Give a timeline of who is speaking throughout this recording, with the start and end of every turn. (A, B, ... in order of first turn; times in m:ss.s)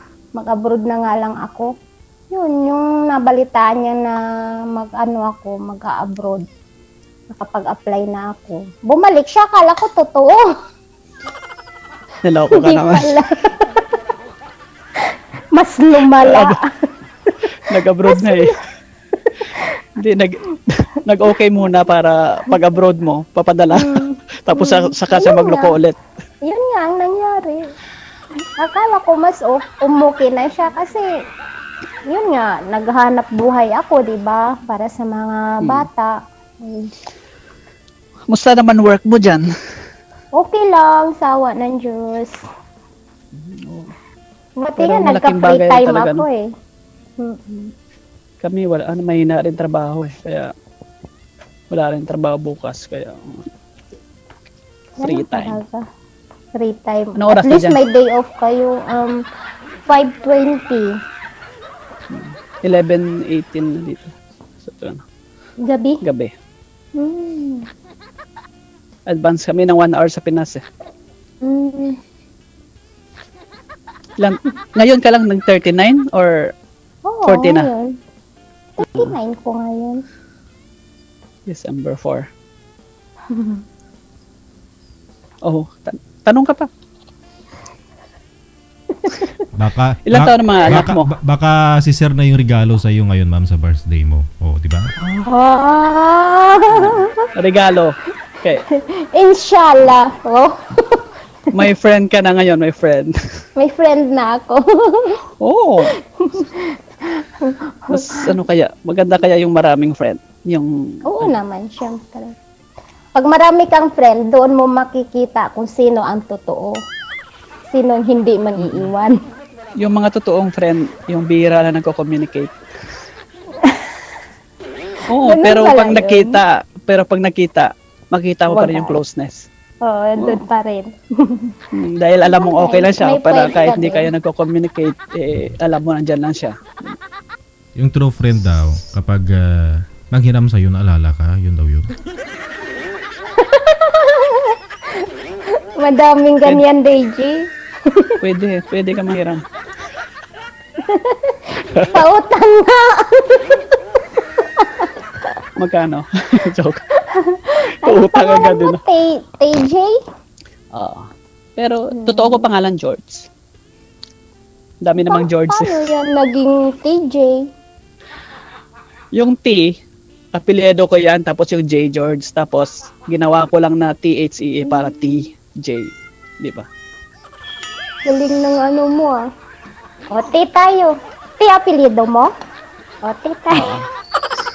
0:00.4-0:01.7 A
0:02.3-0:04.2 A
0:04.7-0:06.4 A
0:07.3-0:10.4 A
0:12.2-0:13.1 B
0:12.5-0:13.8 A
0:15.5-0:16.7 A
0:16.2-0:16.5 B
0:17.3-0:18.5 A
0:17.6-0:18.5 B
0:19.2-0:19.7 A
0:20.0-0:26.0 B
0:23.7-0:25.8 A
0:26.4-0:27.7 A
0:28.6-0:31.1 A
0:32.1-0:37.0 A
0:38.3-0:39.5 B
0:40.3-0:42.4 A
0:43.3-0:43.9 B
0:44.6-0:46.5 A
0:44.8-0:46.2 B
0:47.2-0:47.7 A
0:48.4-0:50.5 B
0:51.7-0:53.5 B
0:55.0-0:55.8 A
0:55.0-0:55.6 B
0:56.6-0:59.2 A
0:57.2-0:57.8 B
0:59.9-1:00.9 A
1:02.1-1:05.0 B
1:05.6-1:06.0 A
1:06.0-1:06.3 B
1:07.0-1:07.7 A
1:09.1-1:10.6 B
1:11.4-1:12.0 A
1:14.2-1:16.4 B
1:17.1-1:17.9 A
1:17.2-1:17.7 B
1:18.8-1:20.0 A
1:21.5-1:22.2 B
1:23.3-1:23.6 A
1:25.4-1:26.7 B
1:29.0-1:29.4 A
1:29.6-1:34.9 C
1:30.1-1:31.1 B
1:35.1-1:37.2 A
1:37.4-1:38.6 B
1:39.1-1:41.1 A
1:41.5-1:43.1 B
1:43.6-1:45.2 A
1:45.4-1:45.9 B
1:46.2-1:48.3 A
1:47.9-1:51.4 B
1:51.1-1:52.4 A
1:53.2-1:56.7 A
1:57.7-1:59.2 A
1:58.6-1:58.9 B
1:59.8-2:02.5 B
2:03.6-2:03.9 A
2:05.1-2:09.5 B
2:05.2-2:06.4 A
2:08.5-2:09.0 A
2:09.8-2:11.5 A
2:11.7-2:17.0 B
2:12.2-2:14.1 A
2:17.8-2:21.9 C
2:23.3-2:28.2 A
2:28.2-2:29.4 B
2:30.8-2:35.3 A
2:35.6-2:36.8 B
2:37.1-2:39.9 A
2:37.7-2:38.8 B
2:40.7-2:41.1 B
2:41.6-2:43.3 B
2:41.9-2:42.5 A
2:44.8-2:45.9 B
2:45.0-2:47.5 A
2:49.2-2:49.7 B
2:50.4-2:56.6 B
2:58.0-2:59.3 A
3:00.1-3:02.3 A
3:03.0-3:03.7 A
3:03.5-3:03.8 B